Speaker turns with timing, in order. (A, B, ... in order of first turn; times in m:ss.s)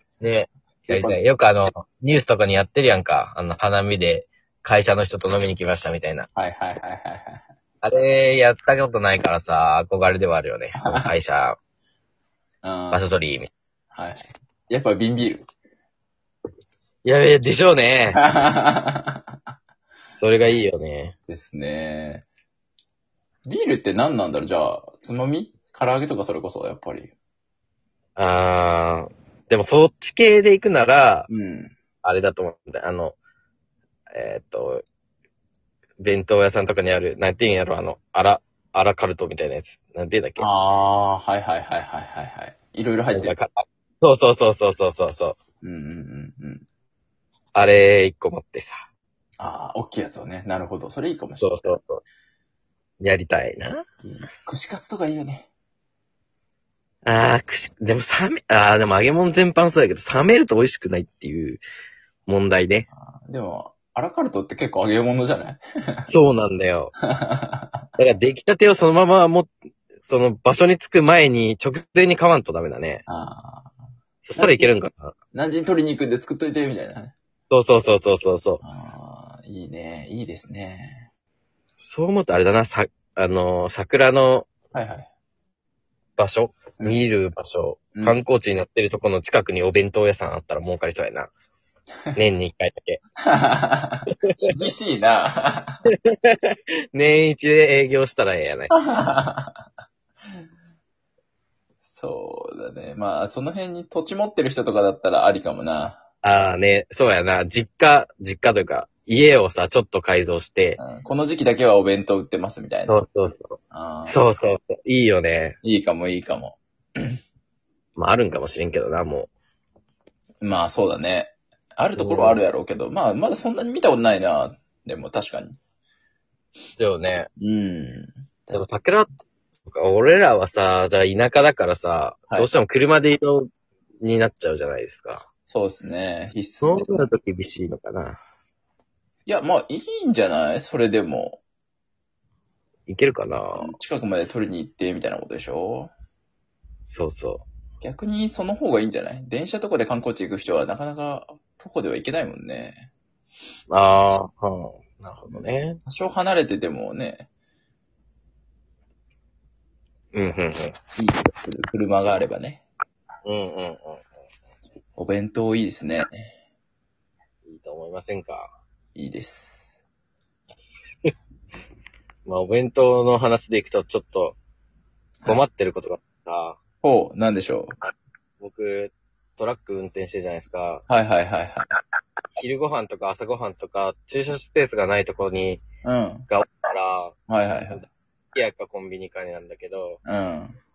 0:00.2-0:06.3 A
0:00.9-0:01.2 B
0:06.4-0:07.4 B
0:07.8-0:11.6 A
0:10.8-0:11.1 B
0:12.6-0:13.0 B
0:12.9-0:13.5 A
0:13.9-0:15.5 B
0:17.0-0:18.2 A
0:18.1-0:19.2 B
0:20.1-0:21.2 A
0:21.3-0:22.2 B
0:23.5-0:27.1 B
0:28.2-0:31.3 A
0:31.3-0:31.8 B
0:32.0-0:33.2 A
0:34.1-0:34.8 A
0:36.0-0:40.5 A
0:40.4-0:43.4 B
0:43.1-0:45.4 A
0:45.6-0:46.7 B
0:47.5-0:48.9 A
0:49.4-0:51.6 B
0:51.4-0:52.0 A
0:53.0-0:53.8 A
0:54.0-0:55.5 B
0:57.0-1:01.6 A
1:02.2-1:02.9 A
1:02.9-1:06.1 B
1:06.1-1:06.9 A
1:07.0-1:07.9 B
1:08.0-1:13.0 A
1:13.1-1:13.7 B
1:14.2-1:15.2 A
1:14.4-1:14.8 B
1:15.3-1:17.1 B
1:17.5-1:18.6 A
1:18.6-1:21.1 B
1:21.8-1:24.5 A
1:24.7-1:25.1 B
1:26.2-1:31.3 A
1:26.8-1:27.0 B
1:27.9-1:28.2 B
1:32.2-1:33.0 A
1:33.2-1:35.8 B
1:34.2-1:34.6 A
1:35.9-1:38.7 A
1:38.7-1:39.6 B
1:41.8-1:46.0 B
1:46.2-1:50.8 A
1:50.8-1:53.0 B
1:52.9-1:55.6 A
1:53.7-1:54.2 B
1:55.6-1:57.2 B
1:58.0-1:59.3 A
2:00.4-2:05.6 B
2:01.9-2:02.4 A
2:06.8-2:07.3 A
2:07.4-2:08.6 B
2:08.5-2:09.1 A
2:09.7-2:13.5 A
2:14.0-2:15.2 A
2:15.4-2:17.1 B
2:16.2-2:18.2 A
2:19.2-2:21.4 B
2:22.9-2:23.8 A
2:23.6-2:25.9 B
2:26.9-2:27.5 A
2:27.8-2:32.9 B
2:33.7-2:35.8 A
2:35.9-2:37.3 B
2:40.1-2:40.9 A
2:41.0-2:42.6 B
2:43.2-2:44.0 A
2:45.0-2:46.3 B
2:47.4-2:48.5 A
2:48.9-2:49.8 B
2:52.3-2:54.4 A
2:55.3-2:56.6 A
2:56.8-2:57.7 B
2:58.4-3:00.8 A
3:00.9-3:01.7 B
3:02.4-3:05.6 A
3:05.8-3:06.3 B
3:06.3-3:07.2 A
3:07.3-3:07.8 B
3:07.7-3:10.0 A
3:10.0-3:10.6 B